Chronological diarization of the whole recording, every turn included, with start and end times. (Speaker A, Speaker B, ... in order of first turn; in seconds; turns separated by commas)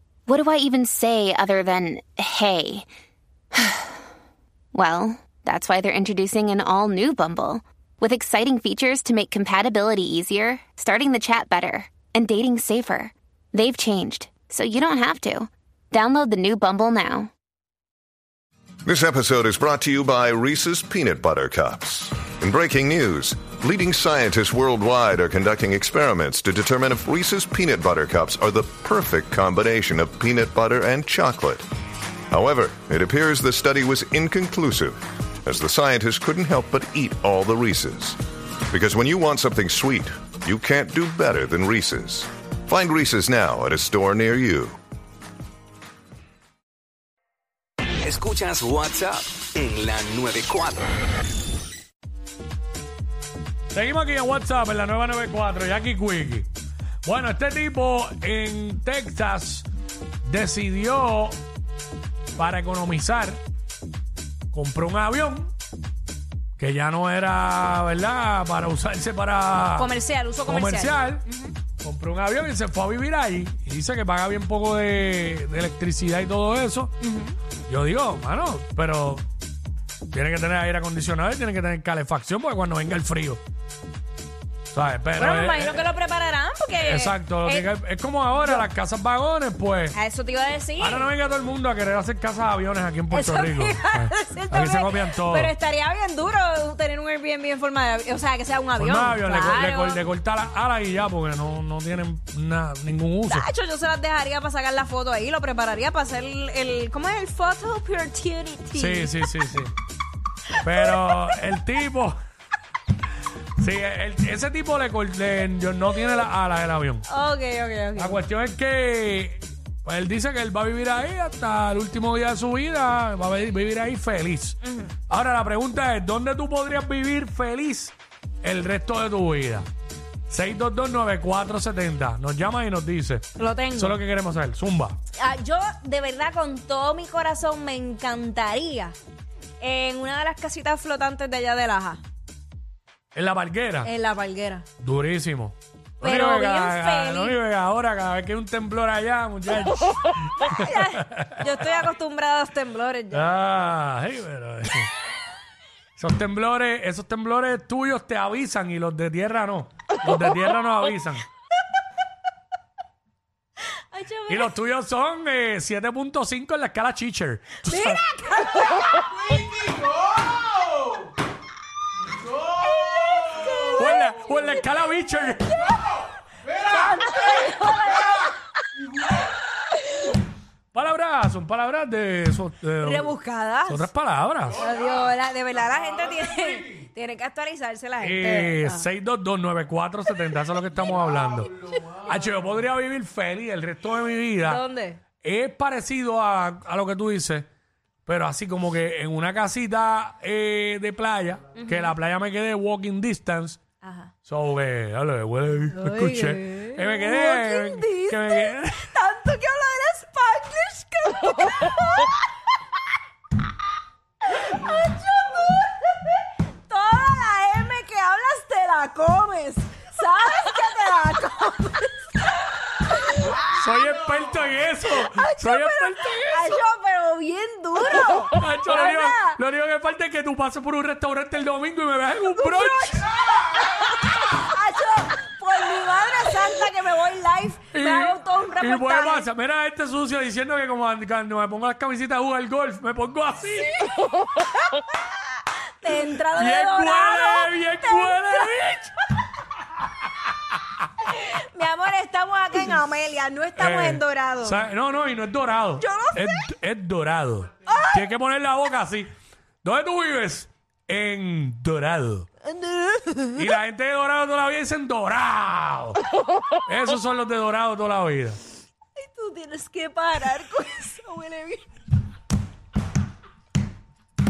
Speaker A: 0.3-2.9, Speaker A: 3.5-3.9, Speaker A: 4.7-17.3, Speaker B: 18.9-31.6, Speaker B: 32.3-38.2, Speaker B: 38.7-44.8, Speaker C: 48.0-50.9, Speaker D: 53.7-56.5, Speaker D: 57.0-59.7, Speaker D: 60.2-61.4, Speaker D: 62.4-63.4, Speaker D: 64.5-65.5, Speaker D: 66.6-69.9, Speaker E: 69.8-71.5, Speaker D: 70.5-71.2, Speaker D: 71.8-76.9, Speaker E: 77.0-77.4, Speaker D: 77.7-79.2, Speaker D: 80.1-83.4, Speaker D: 84.7-85.9, Speaker E: 85.2-87.7, Speaker D: 86.8-90.0, Speaker E: 88.4-88.7, Speaker E: 89.9-91.1, Speaker D: 90.8-95.5, Speaker E: 93.1-100.0, Speaker D: 98.8-103.5, Speaker E: 103.3-109.3, Speaker D: 108.8-109.7, Speaker D: 110.6-112.2, Speaker E: 110.8-111.2, Speaker D: 113.6-117.1, Speaker E: 117.0-118.2, Speaker D: 118.0-124.6, Speaker E: 124.6-124.9, Speaker D: 125.1-129.7, Speaker D: 130.3-135.0, Speaker E: 133.4-134.0, Speaker E: 135.2-138.9, Speaker E: 139.6-142.0, Speaker D: 143.2-143.9, Speaker E: 143.8-144.7, Speaker D: 144.8-151.4, Speaker E: 146.0-147.4, Speaker E: 150.4-153.3, Speaker D: 153.1-154.9, Speaker D: 156.0-161.2, Speaker E: 163.8-164.5, Speaker D: 164.3-168.0, Speaker E: 167.6-169.4, Speaker E: 172.6-174.6, Speaker D: 173.7-175.6, Speaker E: 176.6-178.4, Speaker D: 180.7-184.7, Speaker E: 182.8-183.9, Speaker E: 184.6-188.9, Speaker D: 188.0-194.6, Speaker E: 194.4-195.0, Speaker D: 195.2-197.5, Speaker D: 198.1-203.6, Speaker E: 201.6-201.9, Speaker E: 203.8-204.1, Speaker D: 204.2-208.9, Speaker E: 205.7-212.2, Speaker E: 214.3-216.1, Speaker E: 216.7-222.1, Speaker E: 223.0-223.4, Speaker D: 223.5-226.5, Speaker E: 224.9-229.4, Speaker D: 228.3-233.0, Speaker E: 232.3-239.3, Speaker D: 237.7-243.8, Speaker E: 245.8-248.9, Speaker D: 246.3-248.9, Speaker E: 251.0-254.6, Speaker D: 253.6-259.1, Speaker E: 255.8-256.4, Speaker E: 257.7-258.1, Speaker D: 259.6-262.3, Speaker E: 262.4-263.5, Speaker D: 263.4-266.0, Speaker D: 266.7-268.4, Speaker E: 269.0-271.7